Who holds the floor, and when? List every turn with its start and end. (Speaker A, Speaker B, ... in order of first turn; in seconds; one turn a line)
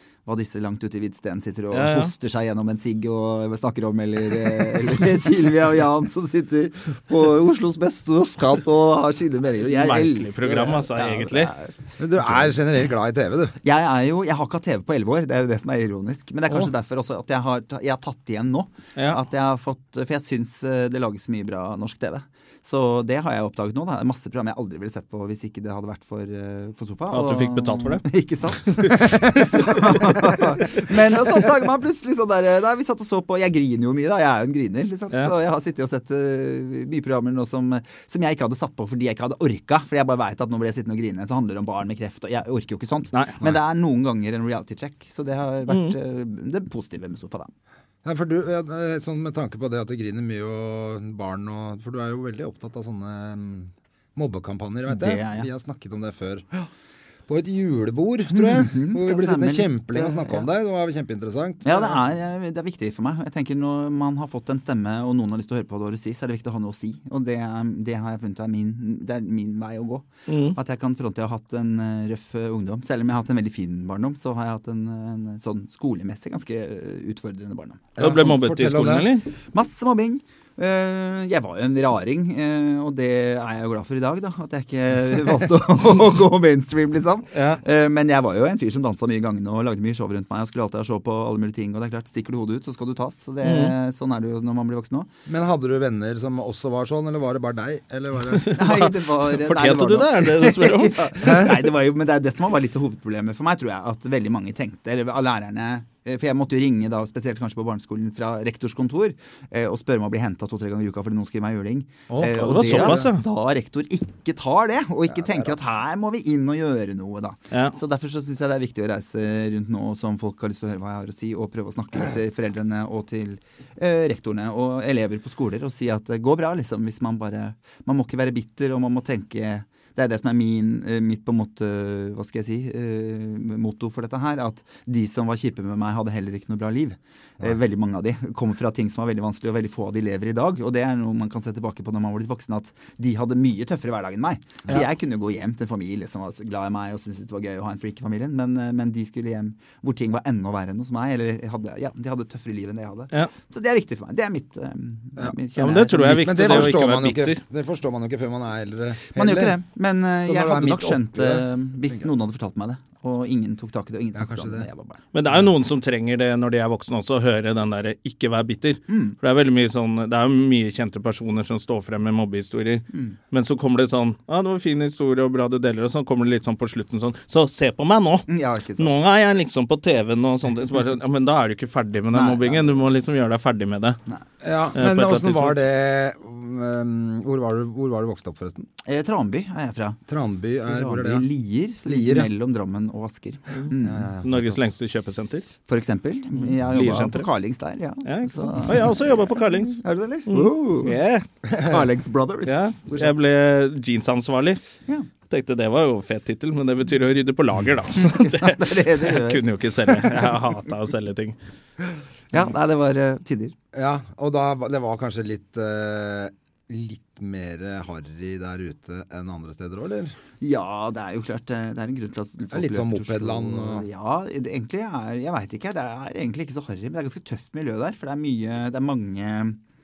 Speaker A: 0.2-12.6
Speaker B: 1.7-2.1
Speaker B: 9.7-11.5
Speaker C: 12.0-13.6
Speaker A: 13.6-47.5
Speaker B: 27.1-28.0
Speaker B: 28.7-29.0
Speaker C: 29.0-30.4
Speaker B: 43.1-43.4
Speaker B: 45.7-45.9
Speaker C: 48.0-56.4
Speaker A: 54.9-55.5
Speaker C: 57.3-62.0
Speaker A: 58.3-60.5
Speaker A: 61.6-77.9
Speaker B: 70.3-70.6
Speaker C: 78.0-79.1
Speaker B: 78.0-79.3
Speaker A: 79.5-95.1
Speaker B: 87.3-87.6
Speaker B: 93.4-93.7
Speaker C: 95.3-98.9
Speaker B: 98.4-101.5
Speaker A: 98.5-156.7
Speaker C: 101.2-101.6
Speaker C: 112.1-113.0
Speaker B: 112.3-113.2
Speaker C: 115.1-115.5
Speaker B: 117.5-117.8
Speaker B: 155.6-157.4
Speaker C: 156.0-159.5
Speaker A: 159.1-165.0
Speaker C: 160.2-162.1
Speaker C: 164.1-164.7
Speaker B: 165.1-184.0
Speaker A: 168.9-169.2
Speaker A: 172.9-173.2
Speaker A: 178.3-178.9
Speaker A: 182.1-182.8
Speaker C: 184.4-188.7
Speaker B: 184.7-185.6
Speaker A: 188.8-190.0
Speaker C: 190.1-191.2
Speaker A: 190.6-194.1
Speaker C: 191.8-192.3
Speaker C: 193.8-194.6
Speaker B: 194.2-195.4
Speaker A: 195.7-201.0
Speaker B: 196.3-197.3
Speaker B: 198.0-201.2
Speaker C: 201.4-201.8
Speaker A: 201.6-203.1
Speaker B: 202.5-204.6
Speaker B: 205.3-211.3
Speaker A: 208.0-210.4
Speaker A: 212.3-213.5
Speaker C: 213.7-220.1
Speaker A: 220.4-229.6
Speaker C: 222.5-223.8